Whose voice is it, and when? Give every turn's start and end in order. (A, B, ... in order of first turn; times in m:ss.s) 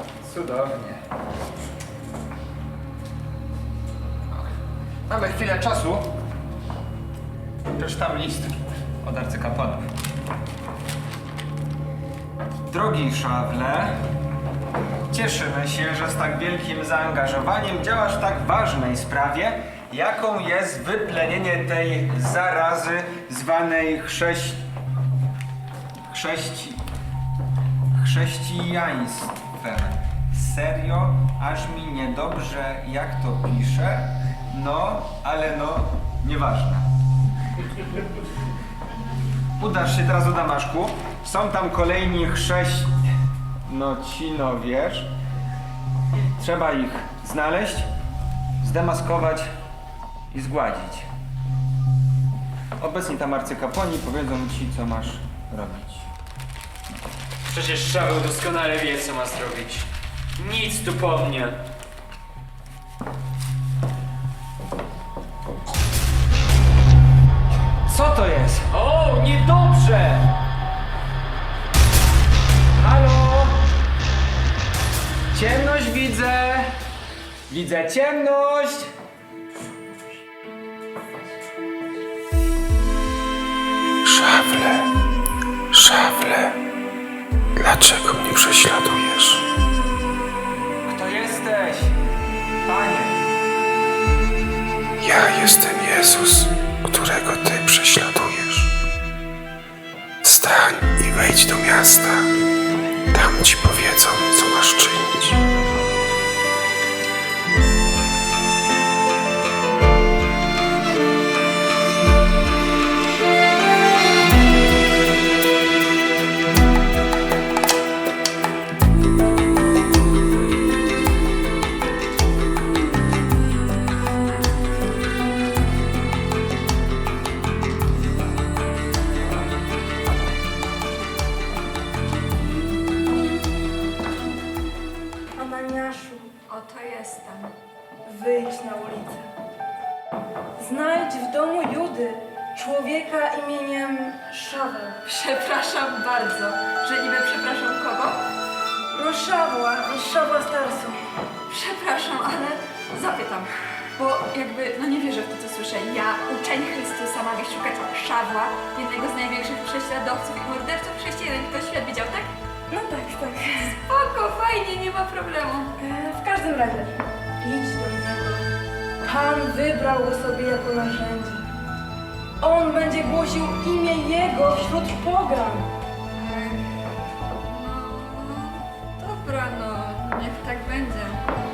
0:00.2-0:01.0 A
0:05.1-0:06.1 A
0:07.7-0:09.8 A
0:12.7-0:14.0 A
0:15.1-0:24.6 A
0:26.1-0:26.8 A
0:28.0-0:36.9 A
0:39.6-0:42.9 A
0:43.6-0:45.1 A
0:46.2-0:47.9 A
0:48.6-0:49.5 A
0:50.3-0:51.1 A
0:52.8-0:56.0 A
0:57.5-0:59.8 B
1:00.4-1:01.6 B
1:07.9-1:08.7 A
1:08.7-1:10.3 B
1:12.8-1:13.6 A
1:15.3-1:16.7 A
1:17.5-1:18.9 A
1:24.0-1:24.9 C
1:25.7-1:26.5 C
1:27.6-1:29.4 C
1:30.8-1:32.0 A
1:32.6-1:33.2 A
1:35.0-1:38.7 C
1:40.2-1:42.2 C
1:43.1-1:45.4 C
2:15.4-2:16.3 D
2:16.5-2:17.5 E
2:18.0-2:19.3 D
2:20.6-2:25.0 D
2:25.0-2:28.2 E
2:28.9-2:31.0 D
2:31.5-2:42.3 E
2:42.7-2:43.7 D
2:43.8-2:45.7 E
2:45.8-2:48.4 D
2:49.0-2:51.4 D
2:52.4-2:55.7 D
2:56.1-2:56.7 E
2:57.4-3:01.2 E